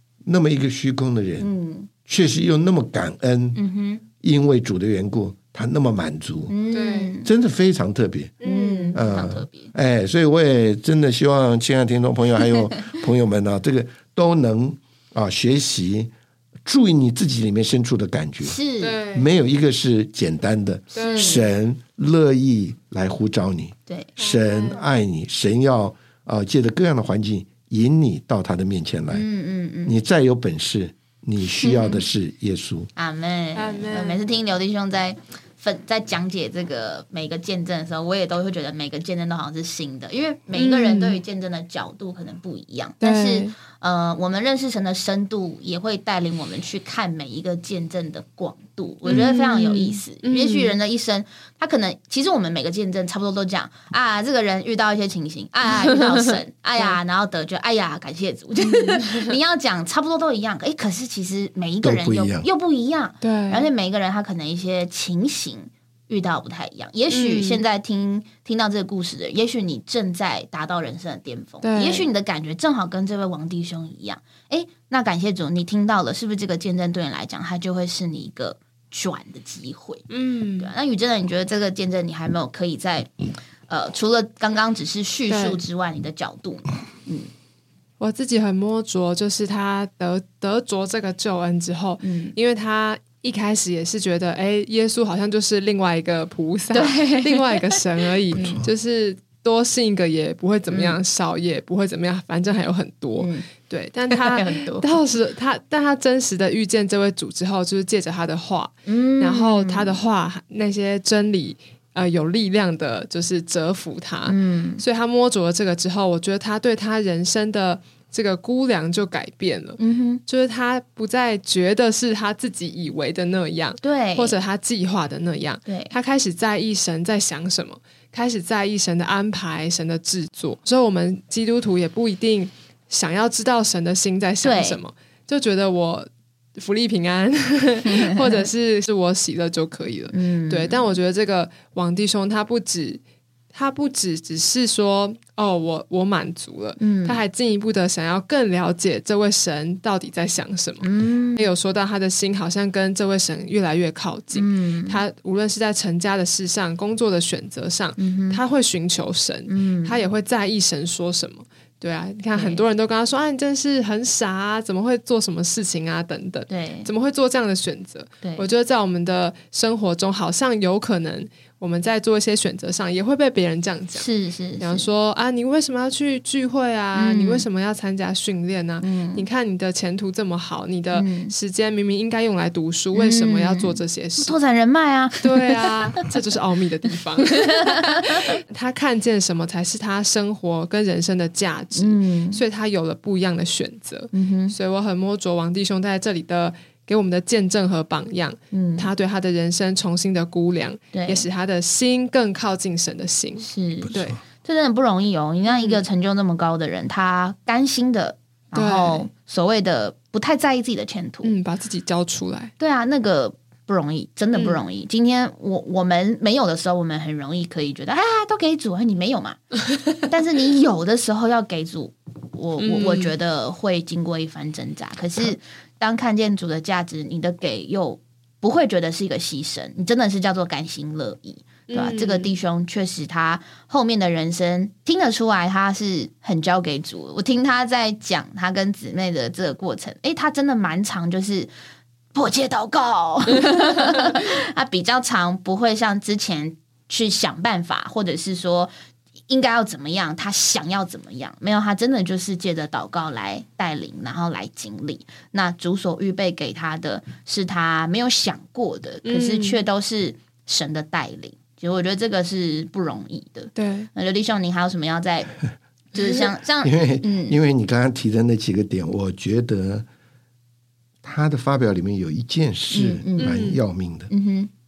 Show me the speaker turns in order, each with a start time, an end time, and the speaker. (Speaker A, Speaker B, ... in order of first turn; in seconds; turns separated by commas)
Speaker A: 0.2-1.5, Speaker B: 1.4-1.9, Speaker A: 2.0-3.6, Speaker B: 3.5-4.0, Speaker A: 4.2-6.6, Speaker B: 6.5-7.3, Speaker C: 6.7-7.1, Speaker A: 7.2-8.4, Speaker C: 8.4-9.0, Speaker B: 8.4-9.7, Speaker A: 8.9-16.1, Speaker A: 16.6-18.6, Speaker B: 18.4-19.0, Speaker C: 18.8-19.3, Speaker A: 19.1-29.3, Speaker C: 20.9-21.4, Speaker B: 21.0-21.5, Speaker C: 24.2-24.9, Speaker B: 29.1-29.9, Speaker A: 29.8-32.9, Speaker B: 31.6-32.0, Speaker B: 33.0-83.1, Speaker C: 33.5-34.2, Speaker C: 40.5-41.2, Speaker C: 43.0-43.5, Speaker C: 49.0-50.7, Speaker C: 58.6-59.3, Speaker A: 61.8-62.5, Speaker C: 63.2-63.7, Speaker C: 67.1-67.6, Speaker C: 71.6-72.1, Speaker C: 80.1-80.7, Speaker B: 83.7-87.3, Speaker C: 85.3-85.6, Speaker C: 88.0-143.0, Speaker B: 92.0-92.3, Speaker B: 96.7-97.8, Speaker B: 98.3-98.6, Speaker A: 98.3-98.7, Speaker B: 100.7-101.0, Speaker B: 103.2-103.5, Speaker B: 104.1-105.0, Speaker B: 108.8-110.0, Speaker B: 114.3-114.8, Speaker B: 119.8-120.2, Speaker B: 123.8-124.3, Speaker B: 125.7-125.9, Speaker B: 134.4-134.8, Speaker B: 137.8-138.4, Speaker B: 140.1-140.9, Speaker C: 143.5-174.1, Speaker B: 146.8-147.2, Speaker B: 150.8-151.5, Speaker B: 154.3-155.0, Speaker B: 158.0-158.4, Speaker B: 159.5-160.0, Speaker B: 162.3-162.7, Speaker B: 166.5-166.9, Speaker B: 168.2-168.5, Speaker B: 173.9-174.9, Speaker C: 174.6-184.3, Speaker B: 176.9-177.4, Speaker B: 178.8-179.2, Speaker B: 180.9-181.3, Speaker B: 182.9-186.1, Speaker C: 185.2-204.2, Speaker B: 187.6-188.3, Speaker B: 191.8-192.4, Speaker B: 194.1-194.5, Speaker B: 198.5-198.9, Speaker B: 200.9-201.2, Speaker B: 203.4-211.3, Speaker A: 203.8-204.2, Speaker C: 205.4-205.8, Speaker C: 208.5-209.1, Speaker C: 211.2-212.5, Speaker B: 212.6-241.5, Speaker C: 214.3-214.6, Speaker C: 222.6-223.1, Speaker C: 231.7-232.3, Speaker B: 242.1-248.7, Speaker B: 249.3-265.4, Speaker C: 259.0-259.6, Speaker C: 263.5-263.9, Speaker B: 265.9-267.4, Speaker A: 266.6-269.9, Speaker A: 271.0-274.1, Speaker B: 272.7-273.4, Speaker C: 273.2-273.6, Speaker B: 274.1-274.5